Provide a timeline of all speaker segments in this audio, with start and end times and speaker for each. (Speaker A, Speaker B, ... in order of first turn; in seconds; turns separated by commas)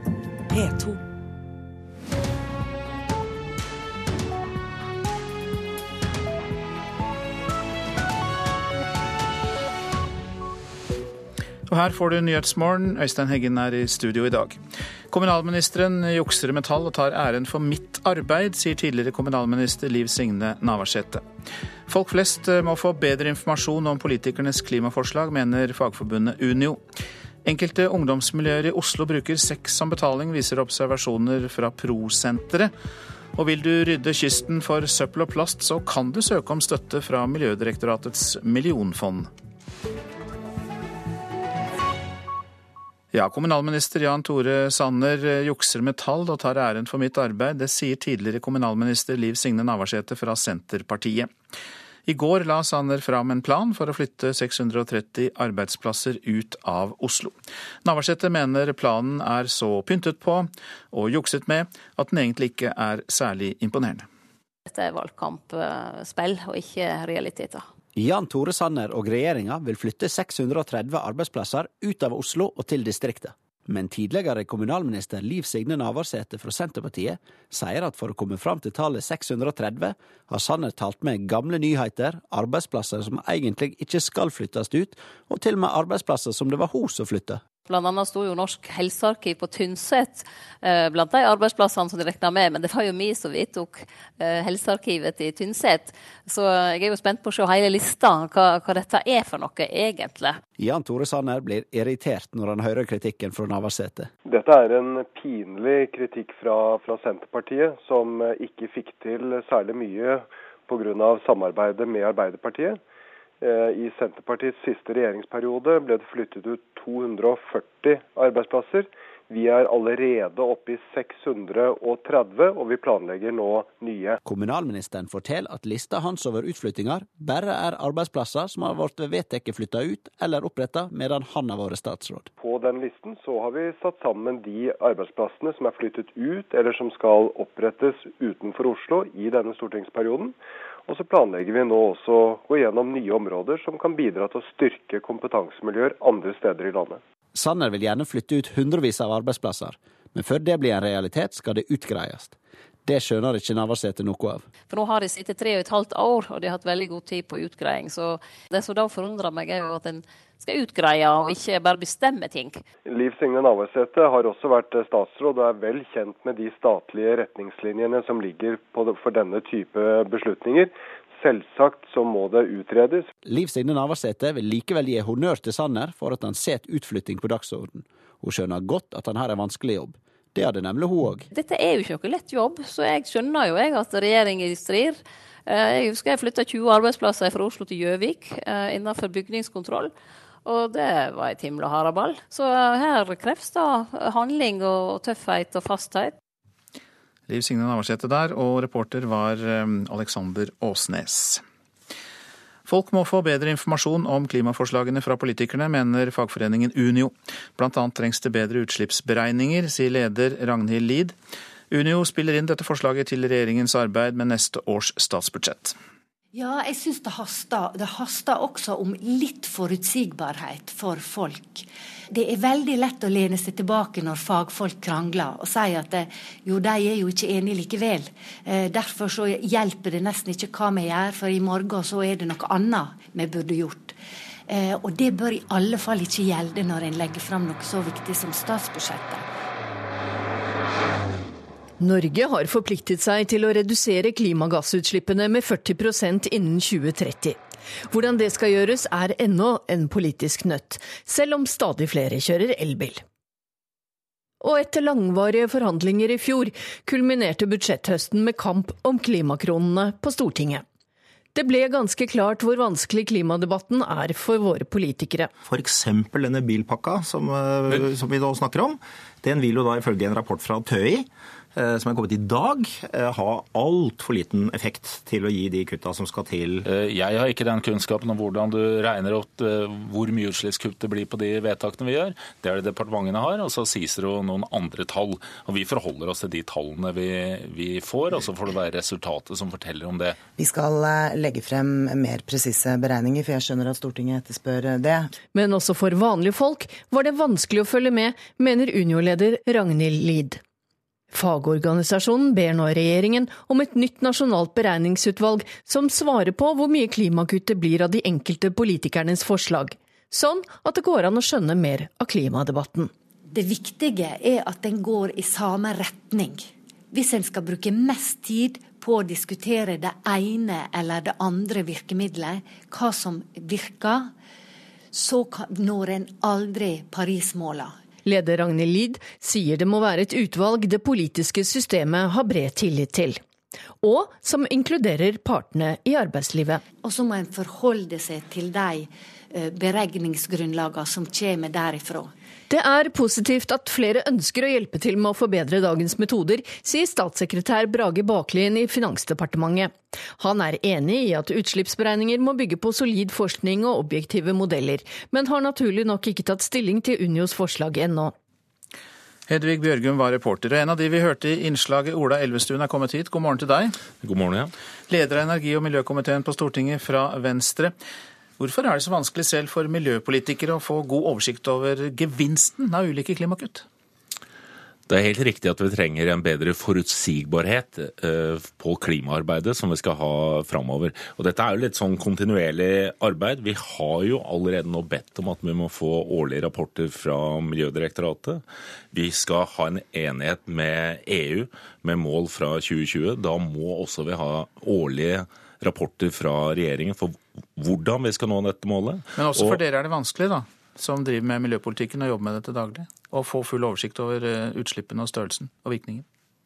Speaker A: 11.7-14.6, Speaker A: 15.1-21.2, Speaker A: 21.9-26.8, Speaker A: 27.4-32.7, Speaker A: 33.3-39.3, Speaker A: 43.1-51.3, Speaker A: 52.0-64.0, Speaker B: 64.7-67.7, Speaker C: 67.9-87.4, Speaker B: 87.7-100.4, Speaker C: 100.6-104.1, Speaker D: 104.2-112.8, Speaker D: 113.4-124.2, Speaker C: 124.2-132.3, Speaker D: 132.4-140.3, Speaker D: 140.9-147.0, Speaker C: 147.3-154.5, Speaker B: 154.7-162.6, Speaker D: 162.8-173.1, Speaker C: 173.2-181.2, Speaker B: 181.3-189.9, Speaker B: 190.4-196.1, Speaker A: 197.3-201.4, Speaker A: 202.7-211.1, Speaker A: 211.7-215.8, Speaker E: 216.3-239.2, Speaker F: 241.8-253.0, Speaker F: 254.4-260.6, Speaker F: 261.3-265.3, Speaker G: 265.4-276.6, Speaker H: 276.6-290.2, Speaker I: 290.4-295.1, Speaker F: 295.3-300.4, Speaker F: 301.1-312.9, Speaker E: 313.3-324.1, Speaker E: 324.9-327.8, Speaker F: 328.0-333.2, Speaker F: 333.8-336.6, Speaker E: 336.8-342.1, Speaker F: 342.5-358.1, Speaker A: 359.3-363.8, Speaker H: 364.0-364.5, Speaker A: 364.9-367.7, Speaker A: 368.4-373.6, Speaker H: 374.9-399.6, Speaker A: 399.1-406.0